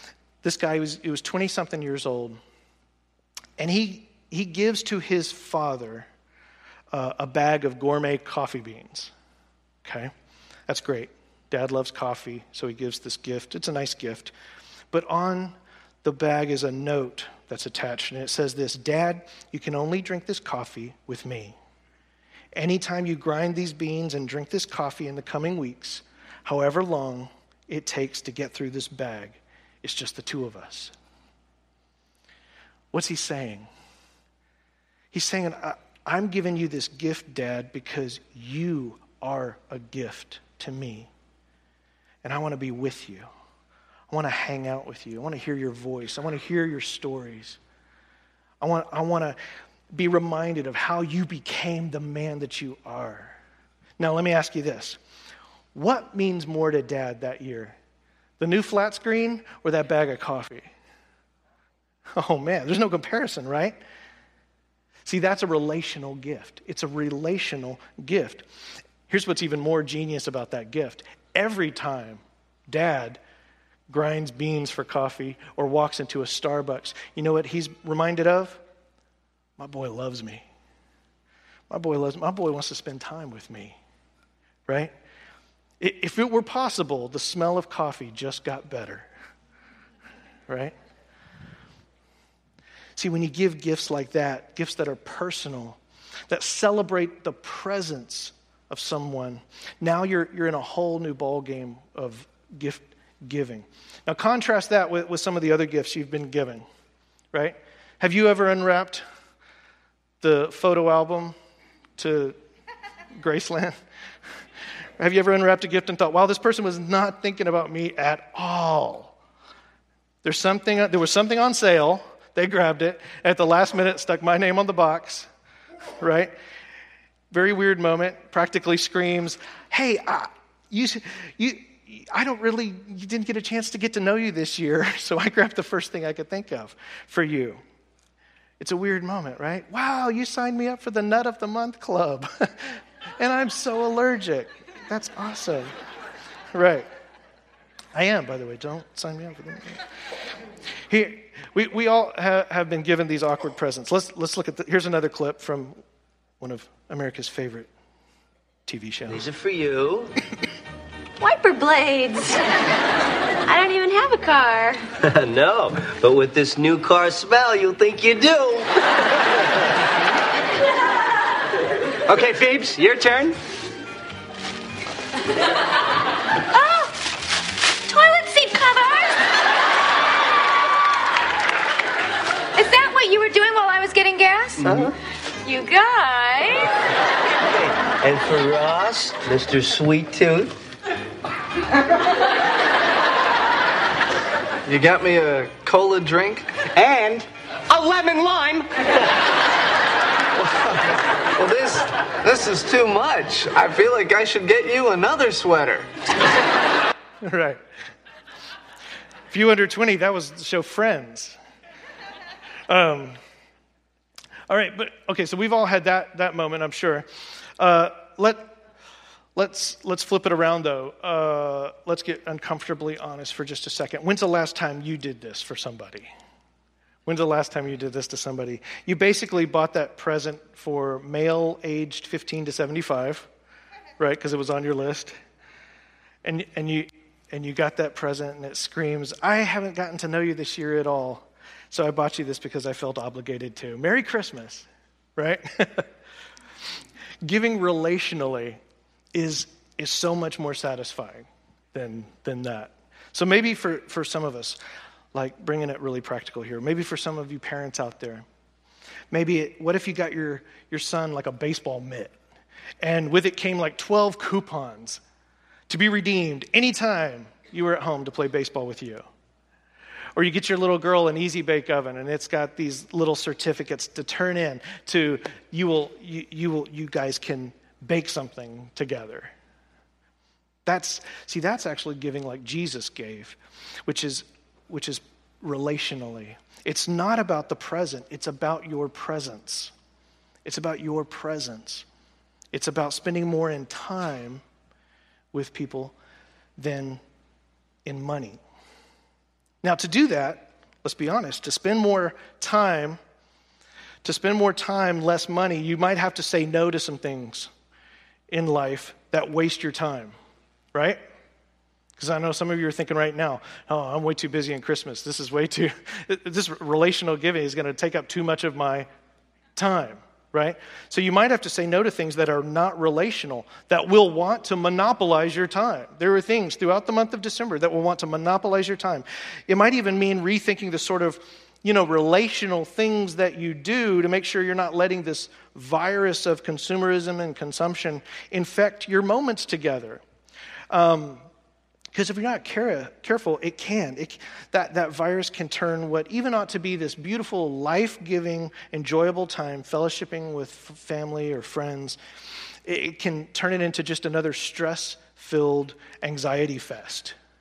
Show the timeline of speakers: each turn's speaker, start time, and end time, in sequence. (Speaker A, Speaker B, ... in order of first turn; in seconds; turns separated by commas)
Speaker A: 0.4-2.4, Speaker A: 3.6-6.1, Speaker A: 6.9-9.1, Speaker A: 9.8-10.1, Speaker A: 10.7-14.3, Speaker A: 14.9-21.6, Speaker A: 22.5-30.9, Speaker A: 32.9-33.7, Speaker A: 35.1-41.1, Speaker A: 42.2-43.3, Speaker A: 44.1-47.6, Speaker A: 48.6-49.4, Speaker A: 49.9-53.4, Speaker A: 54.0-55.0, Speaker A: 55.7-57.8, Speaker A: 58.4-60.7, Speaker A: 62.1-63.8, Speaker A: 65.0-68.4, Speaker A: 69.1-73.2, Speaker A: 73.9-78.6, Speaker A: 79.6-80.4, Speaker A: 81.7-83.8, Speaker A: 84.7-84.9, Speaker A: 85.8-89.1, Speaker A: 90.5-90.7, Speaker A: 93.0-106.6, Speaker A: 107.3-109.0, Speaker A: 110.2-111.3, Speaker A: 112.0-112.3, Speaker A: 113.1-113.7, Speaker A: 115.0-119.2, Speaker A: 120.2-125.3, Speaker A: 126.0-126.3, Speaker A: 127.3-137.6, Speaker A: 138.6-145.7, Speaker A: 146.5-146.9, Speaker A: 147.9-149.8, Speaker A: 150.9-155.8, Speaker A: 156.4-157.7, Speaker A: 158.7-159.2, Speaker B: 159.1-160.1, Speaker C: 161.2-162.4, Speaker C: 163.4-164.8, Speaker B: 165.0-168.7, Speaker C: 176.5-177.0, Speaker C: 177.9-179.2, Speaker C: 182.5-184.6, Speaker B: 184.6-184.9, Speaker D: 184.6-184.9, Speaker C: 185.4-186.7, Speaker B: 187.4-190.5, Speaker D: 194.7-196.7, Speaker E: 196.7-198.7, Speaker D: 200.4-200.8, Speaker D: 201.3-205.9, Speaker A: 207.2-207.6, Speaker A: 209.3-211.4, Speaker A: 212.7-213.2, Speaker A: 214.5-217.1, Speaker A: 217.6-218.5, Speaker A: 219.3-226.1, Speaker A: 227.1-233.3, Speaker A: 234.0-235.1, Speaker A: 236.2-245.9, Speaker A: 247.2-248.6, Speaker A: 249.1-254.6, Speaker A: 255.1-258.2, Speaker A: 259.1-262.1, Speaker A: 262.8-265.0, Speaker A: 265.7-269.1, Speaker A: 270.1-279.3, Speaker A: 280.6-289.7, Speaker A: 290.4-291.9, Speaker A: 292.5-294.4, Speaker A: 295.3-295.9, Speaker A: 296.6-297.0, Speaker A: 297.8-298.4, Speaker A: 299.6-303.0, Speaker A: 304.0-307.5, Speaker A: 308.3-310.1, Speaker A: 310.7-311.0, Speaker A: 312.0-318.9, Speaker A: 319.6-340.0, Speaker A: 340.7-341.2, Speaker A: 341.9-352.0, Speaker A: 352.6-357.1